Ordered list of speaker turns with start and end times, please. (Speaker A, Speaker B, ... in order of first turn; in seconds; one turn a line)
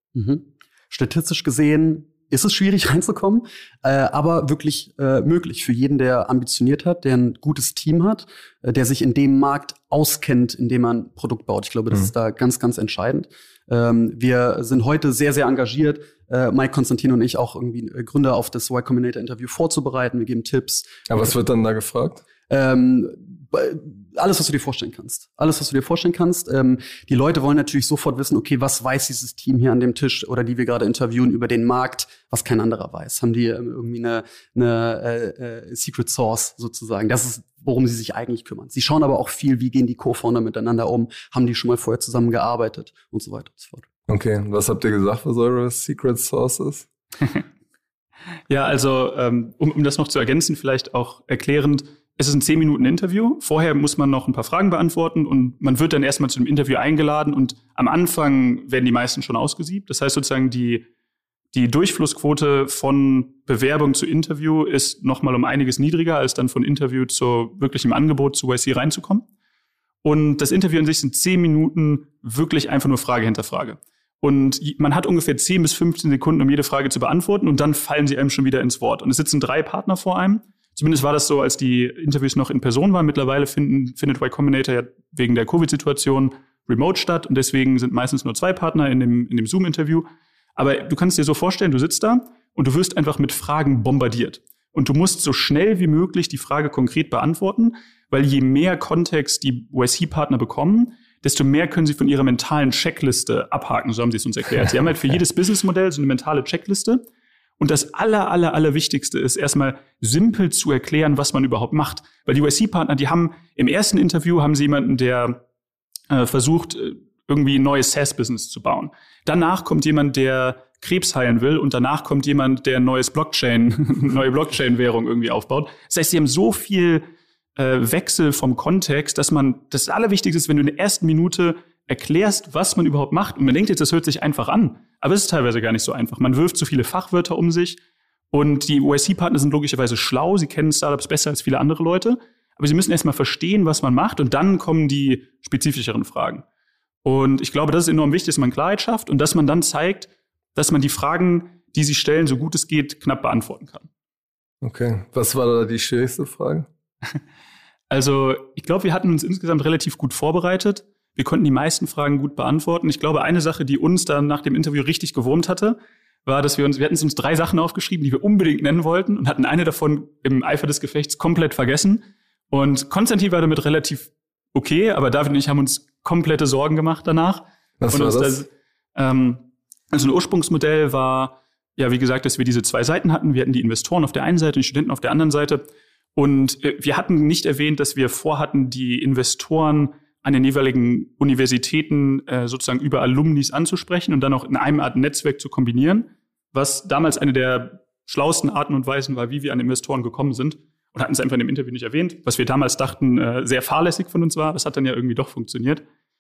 Speaker A: 0.1-21.2
Speaker B: 21.1-22.2
Speaker A: 22.5-43.9
Speaker B: 44.1-46.9
Speaker C: 48.5-60.9
Speaker C: 61.5-69.3
Speaker C: 70.0-107.0
Speaker C: 107.6-115.4
Speaker C: 116.1-127.0
Speaker C: 127.6-137.8
Speaker C: 138.3-146.4
Speaker C: 147.0-153.9
Speaker B: 154.6-156.7
Speaker C: 157.9-185.7
Speaker B: 177.8-178.4
Speaker C: 186.2-205.8